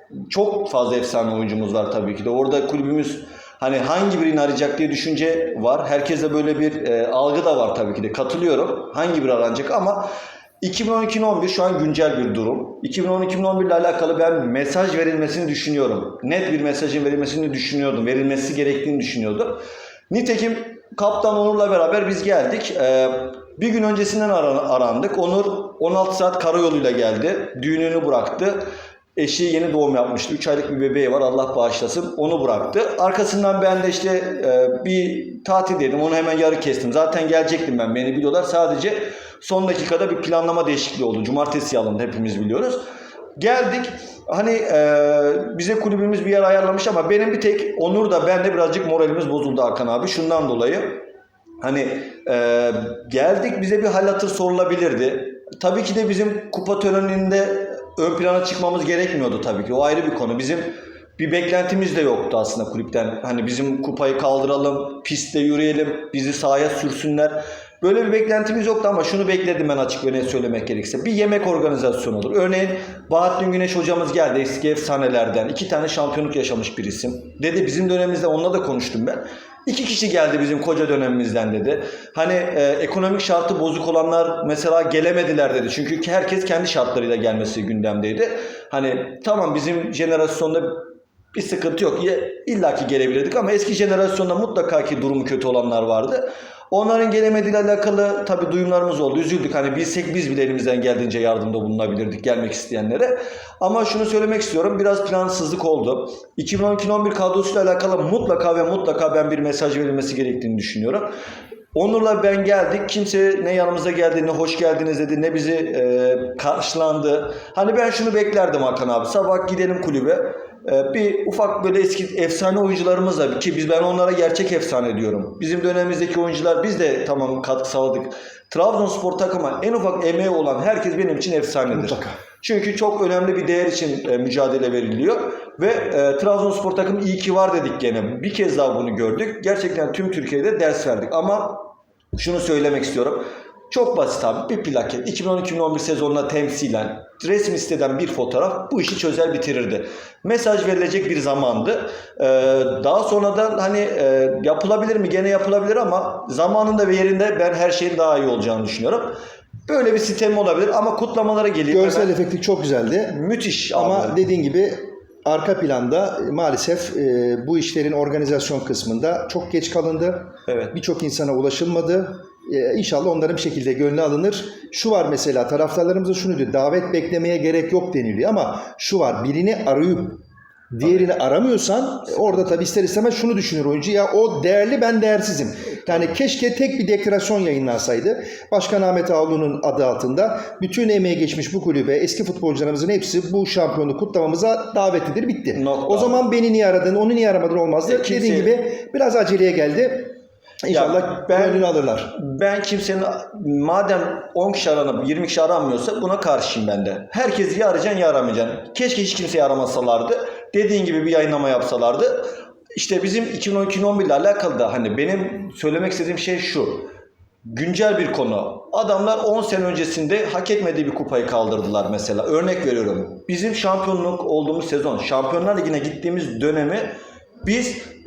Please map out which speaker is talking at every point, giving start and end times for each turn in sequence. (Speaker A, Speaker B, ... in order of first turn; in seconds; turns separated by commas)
Speaker A: 0.3-10.1, Speaker A: 10.6-28.6, Speaker A: 29.1-42.8, Speaker A: 43.4-51.0, Speaker A: 51.6-111.1, Speaker A: 111.7-162.1, Speaker B: 131.7-132.2, Speaker B: 161.7-163.2, Speaker A: 163.1-164.2, Speaker B: 163.7-180.2, Speaker A: 170.5-170.7, Speaker B: 180.7-200.1, Speaker A: 195.5-196.3, Speaker A: 197.8-198.5, Speaker B: 200.6-202.1, Speaker A: 200.7-216.9, Speaker A: 217.4-227.8